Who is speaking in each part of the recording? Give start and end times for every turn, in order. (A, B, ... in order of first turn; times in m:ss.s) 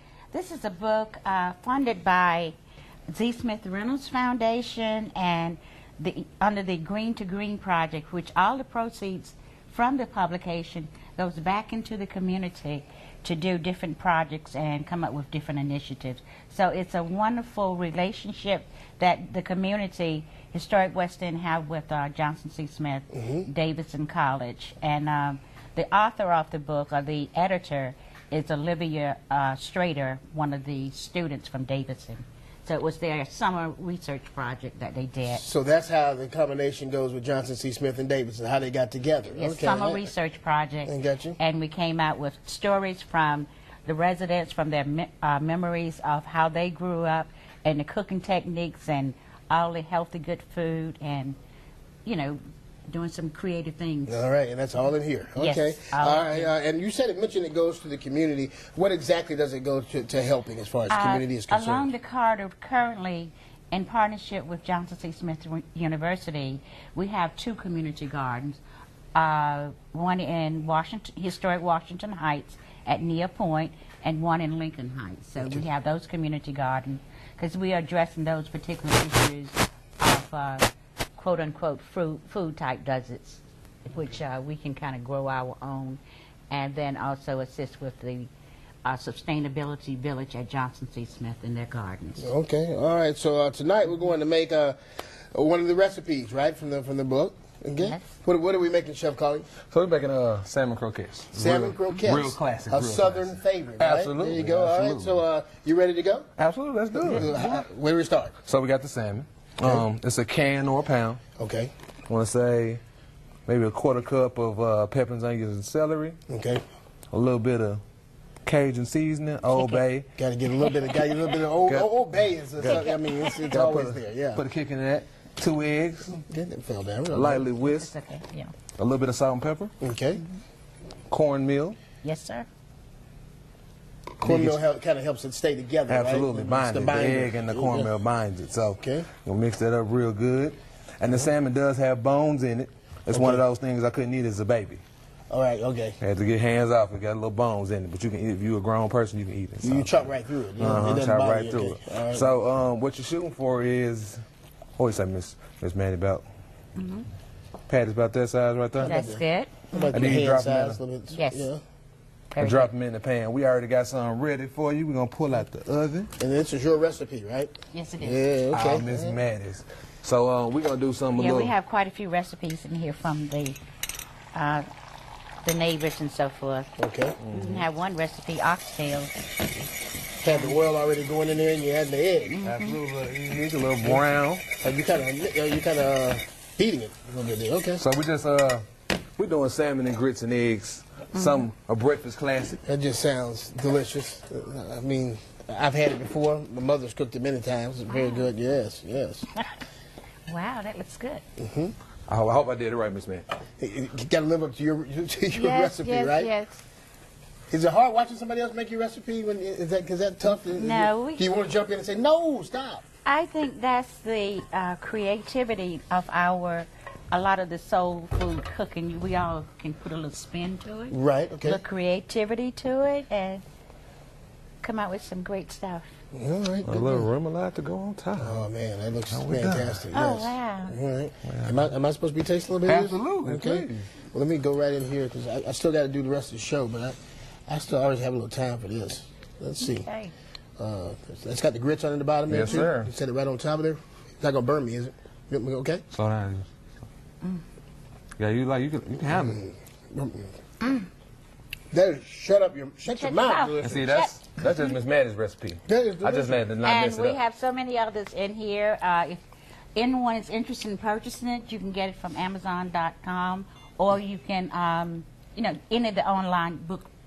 0:00.3-0:02.5 A
0:03.1-0:35.4 A
0:23.2-0:23.4 B
0:35.3-0:40.1 B
0:39.3-0:51.4 A
0:40.8-0:41.4 B
0:52.0-0:54.3 A
0:54.1-1:01.9 B
0:55.4-0:56.5 A
1:00.9-1:08.6 A
1:09.1-1:26.0 A
1:15.4-1:15.6 B
1:26.5-1:28.3 A
1:28.8-1:32.3 A
1:32.2-1:34.8 B
1:35.3-1:39.5 B
1:37.8-1:38.0 A
1:39.7-1:45.2 C
1:41.3-1:46.3 B
1:46.4-1:47.4 C
1:47.0-1:48.3 B
1:47.0-1:47.6 A
1:48.4-1:51.2 C
1:51.4-1:51.7 B
1:52.1-1:52.8 C
1:53.5-1:56.2 C
1:56.3-1:56.6 B
1:57.1-1:57.8 C
1:58.4-2:00.1 C
1:59.5-1:59.8 A
2:00.2-2:04.4 B
2:02.6-2:02.8 C
2:02.6-2:03.4 A
2:03.5-2:06.2 C
2:06.3-2:07.4 B
2:07.1-2:07.9 C
2:07.6-2:08.5 A
2:08.8-2:09.7 C
2:09.8-2:10.2 B
2:11.1-2:11.8 C
2:12.0-2:12.5 A
2:14.2-2:14.6 C
2:14.2-2:17.9 B
2:15.9-2:24.8 C
2:18.8-2:19.1 B
2:23.1-2:23.4 B
2:25.3-2:26.0 B
2:26.0-2:34.2 C
2:29.6-2:32.3 B
2:34.8-2:36.2 C
2:36.8-2:37.1 A
2:37.7-2:39.0 C
2:38.8-2:41.6 B
2:38.8-2:40.0 A
2:39.9-2:40.8 C
2:41.1-2:41.5 A
2:42.3-2:42.7 A
2:42.4-2:46.1 C
2:46.2-2:49.2 B
2:47.7-2:48.2 A
2:48.5-2:51.5 C
2:51.1-2:53.6 A
2:54.3-2:54.6 A
2:55.4-2:56.7 A
2:56.8-2:57.2 B
2:57.2-2:57.7 C
2:57.3-2:59.1 A
3:00.2-3:02.4 B
3:00.2-3:00.5 A
3:02.3-3:02.8 A
3:02.4-3:04.4 C
3:03.8-3:07.8 B
3:07.8-3:08.6 C
3:09.2-3:12.6 C
3:11.1-3:11.4 A
3:12.6-3:19.2 B
3:17.9-3:18.3 A
3:20.3-3:21.2 A
3:21.4-3:21.7 B
3:22.1-3:23.2 C
3:23.6-3:26.3 B
3:25.3-3:26.6 A
3:27.5-3:32.8 B
3:30.3-3:31.2 A
3:33.0-3:43.4 A
3:40.9-3:41.6 B
3:44.6-3:45.8 A
3:46.1-3:47.1 B
3:46.6-3:48.4 C
3:48.2-3:57.0 B
3:49.1-3:49.8 C
3:49.9-3:50.8 A
3:51.2-3:51.6 C
3:52.6-3:53.9 C
3:57.5-3:59.9 B
3:59.6-4:00.1 A
4:00.6-4:05.8 B
4:02.3-4:02.9 C
4:05.9-4:06.5 C
4:08.2-4:09.4 C
4:09.1-4:10.3 B
4:11.7-4:13.9 B
4:12.9-4:14.7 A
4:13.6-4:17.2 C
4:15.7-4:16.4 B
4:16.6-4:19.2 A
4:19.8-4:26.9 A